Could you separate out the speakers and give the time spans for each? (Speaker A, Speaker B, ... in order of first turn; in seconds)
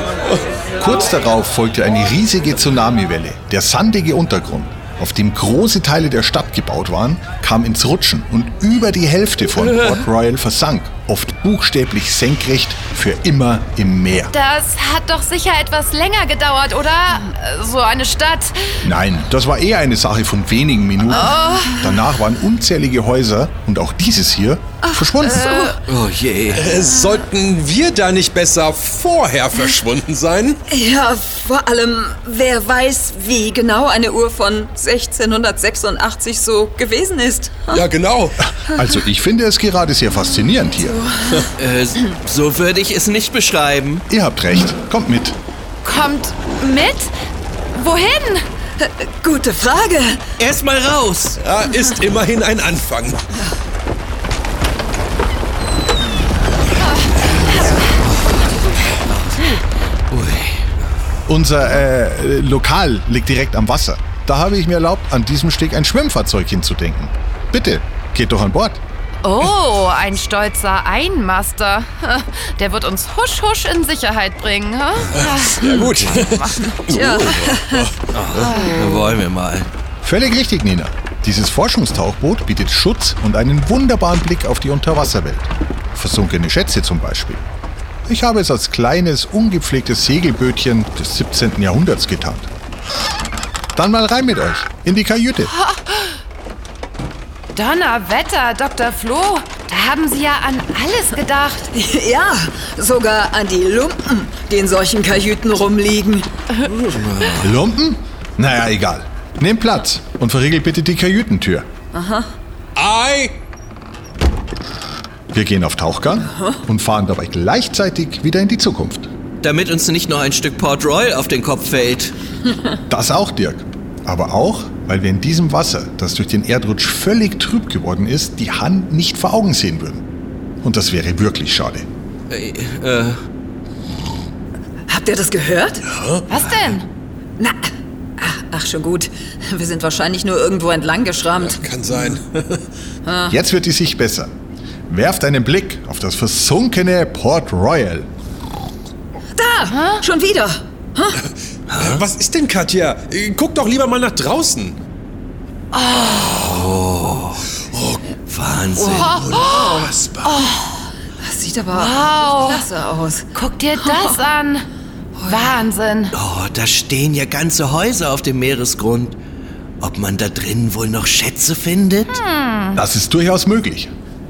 Speaker A: 0.8-14.3, 18.8-25.4, 38.6-41.0, 44.1-45.4, 61.3-68.8, 80.0-87.4, 88.0-92.5, 93.7-95.5, 107.4-111.7, 115.3-119.1, 122.9-130.0, 130.6-131.8, 143.3-144.3, 144.9-148.1, 172.7-173.9
Speaker B: 14.3-18.8, 21.1-21.8, 25.2-25.8, 45.8-47.1, 47.7-48.4, 57.4-57.9, 69.2-76.8, 78.4-79.1, 95.6-96.1, 97.5-101.7, 136.3-136.8, 155.7-156.4, 158.9-160.9, 161.7-162.7, 163.3-164.6, 165.3-166.1, 172.1-172.8
Speaker C: 24.9-25.8, 30.7-37.8, 40.8-41.5, 48.8-50.2, 76.9-77.9, 101.7-106.3, 111.9-112.3, 134.9-135.8, 137.4-137.6, 138.2-142.0, 143.1-143.3, 149.3-151.2, 158.8-159.9, 161.2-163.3, 165.2-165.5
Speaker D: 25.9-26.7, 41.6-44.0, 50.4-51.4, 59.3-59.6, 60.1-60.6, 78.1-79.7, 106.7-107.5, 119.4-122.1, 132.3-133.2, 151.7-152.0, 156.4-157.4, 158.3-159.3, 166.1-169.2, 169.8-172.2
Speaker E: 26.5-30.6, 37.7-38.4, 51.4-53.4, 75.1-78.5, 112.8-113.3, 135.9-136.2, 141.4-142.6, 151.7-154.8, 157.7-158.1, 158.9-160.5